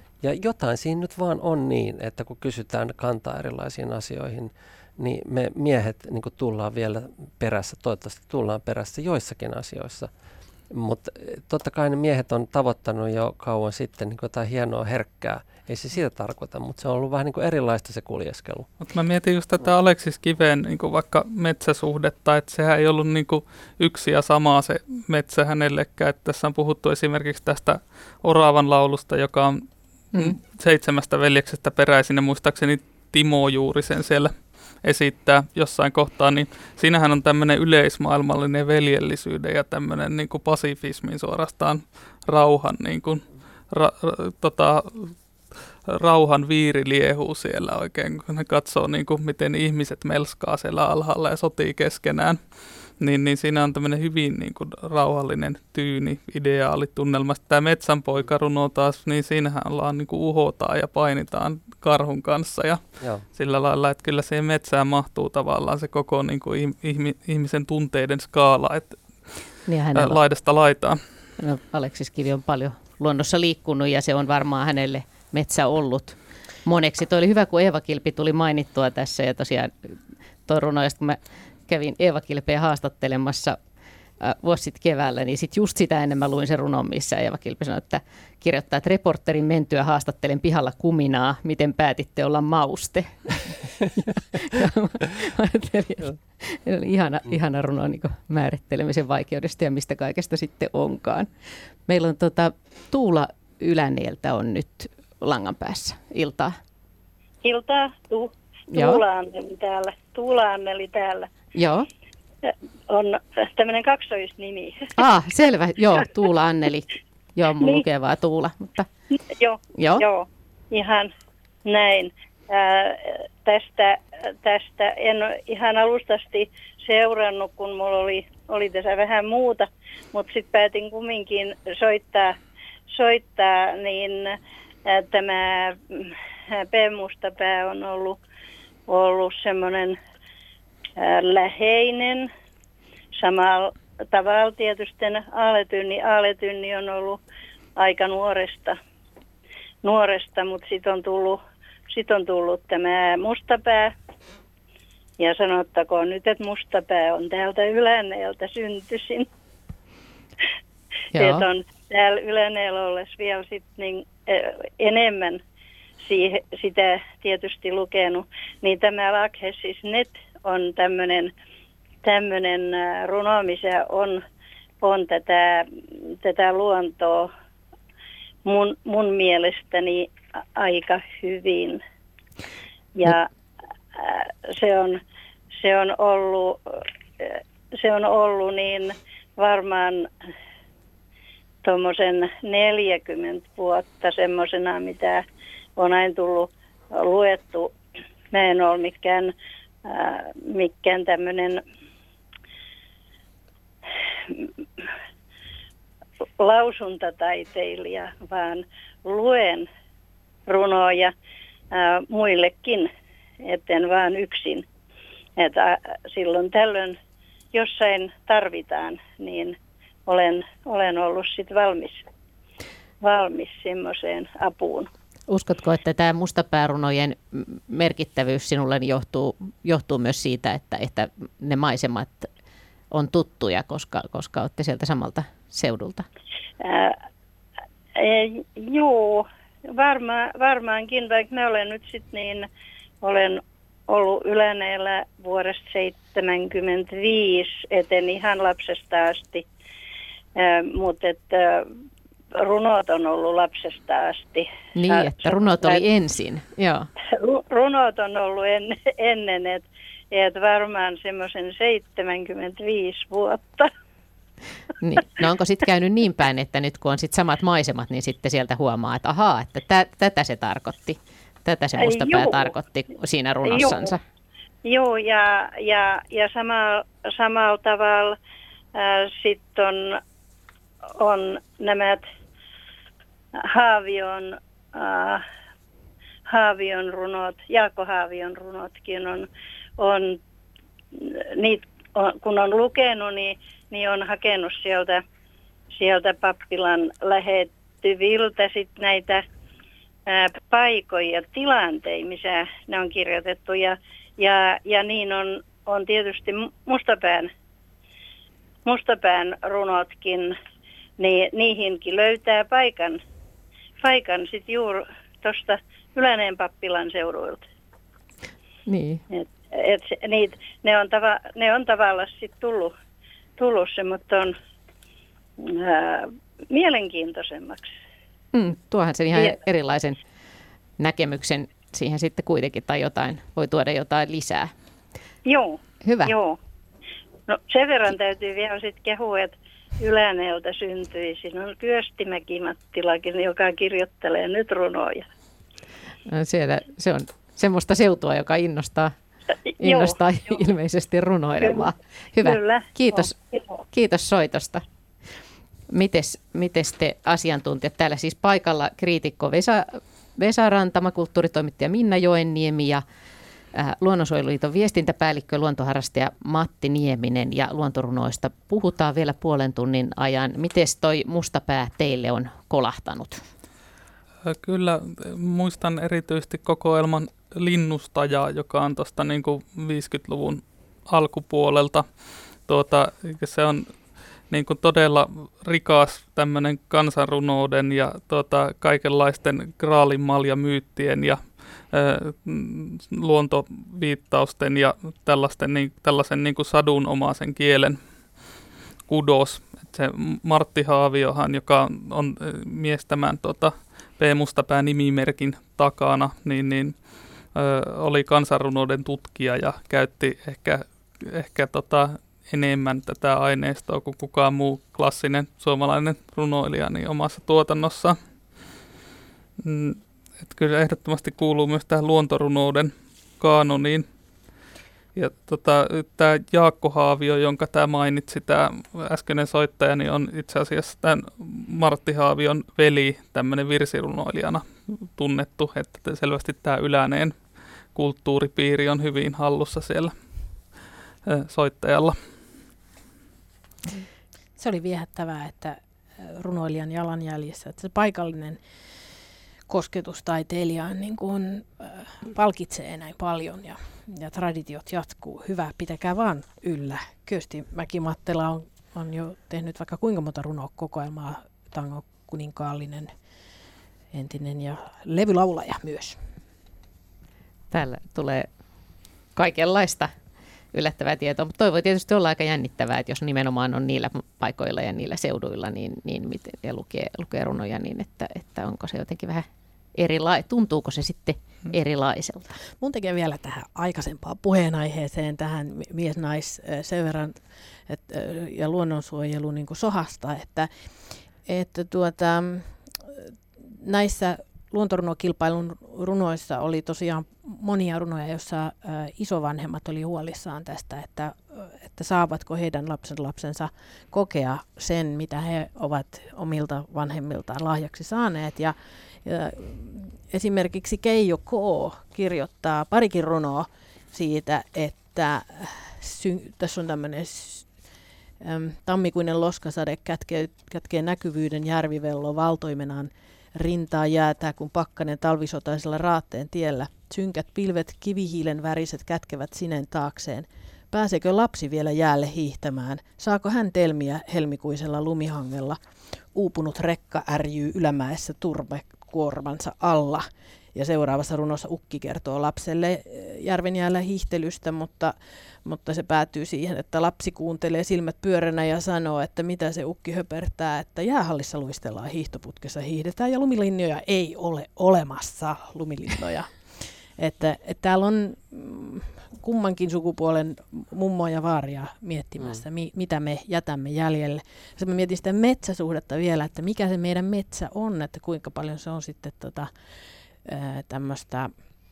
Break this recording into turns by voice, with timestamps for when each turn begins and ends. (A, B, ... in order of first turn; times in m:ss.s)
0:00.2-0:10.1 A
0:10.7-0:18.7 A
0:18.9-0:45.2 B
0:30.1-0:30.4 C
0:45.9-1:11.0 B
1:09.7-1:10.2 C
1:11.4-1:23.6 C
1:24.2-1:46.6 C
1:47.4-1:51.3 D
1:48.7-1:49.0 C
1:51.6-1:51.9 C
1:52.5-1:54.9 D
1:55.0-1:58.9 C
1:59.4-2:01.1 D
1:59.8-2:00.0 C
2:01.7-2:12.4 D
2:12.9-2:18.2 D
2:18.9-2:20.0 D
2:21.0-2:22.3 D
2:23.2-2:27.2 D
2:27.8-2:28.8 D
2:29.8-2:31.4 D
2:31.9-2:33.9 D
2:35.2-2:39.3 D
2:41.1-2:41.5 C
2:41.2-2:45.4 D
2:46.0-2:51.3 D
2:52.0-2:54.2 D
2:54.8-2:57.3 D
2:58.4-3:01.8 D
3:03.0-3:03.3 D
3:04.0-3:05.0 D
3:05.6-3:10.1 D
3:11.6-3:15.2 D
3:15.8-3:17.7 D
3:18.3-3:19.3 D
3:19.8-3:21.6 D
3:26.4-3:29.7 D
3:30.5-3:31.1 D
3:31.7-3:32.9 D
3:33.4-3:34.6 D
3:35.4-3:37.0 D
3:37.5-3:39.6 D
3:40.1-3:42.0 D
3:43.0-3:44.9 D
3:45.3-3:52.3 C
3:52.9-3:56.1 C
3:56.6-3:57.0 D
3:58.0-4:02.5 D
4:03.0-4:09.4 D
4:10.4-4:11.7 D
4:12.4-4:15.8 D
4:14.8-4:16.9 C
4:17.1-4:23.7 D
4:24.8-4:34.0 C
4:31.8-4:32.5 D
4:33.5-4:34.0 D
4:34.6-4:38.2 D
4:38.8-4:40.0 D
4:41.0-4:42.0 D
4:43.4-4:45.2 D
4:46.3-4:49.3 D
4:49.8-4:50.2 D
4:51.0-4:55.0 D
4:55.8-4:59.2 D
5:00.1-5:07.3 D
5:08.7-5:10.4 D
5:11.0-5:13.0 D
5:13.8-5:17.4 D
5:18.7-5:19.0 C
5:19.2-5:22.7 D
5:23.4-5:24.4 D
5:25.4-5:27.7 D
5:28.3-5:30.0 C
5:30.8-5:34.5 C
5:35.3-5:36.4 D
5:35.8-5:36.2 C
5:37.3-5:45.1 D
5:46.1-5:48.9 C
5:49.6-5:53.2 C
5:49.6-5:50.0 D
5:51.4-5:53.2 D
5:53.7-5:54.6 C
5:55.7-6:02.8 C
6:03.5-6:13.3 C
6:14.2-6:21.9 B
6:22.4-6:37.8 B
6:38.9-6:46.8 B
6:47.3-6:58.0 B
6:59.4-7:03.9 B
7:05.0-7:17.2 B
7:17.7-7:19.9 B
7:21.1-7:22.0 B
7:24.4-7:28.4 E
7:29.5-7:42.9 E
7:43.9-7:46.0 E
7:47.5-7:48.3 C
7:49.2-7:49.9 C
7:50.5-8:02.4 C
8:02.6-8:10.5 E
8:11.2-8:37.5 E
8:38.2-8:55.6 E
8:56.1-9:29.5 E
9:30.2-9:31.3 E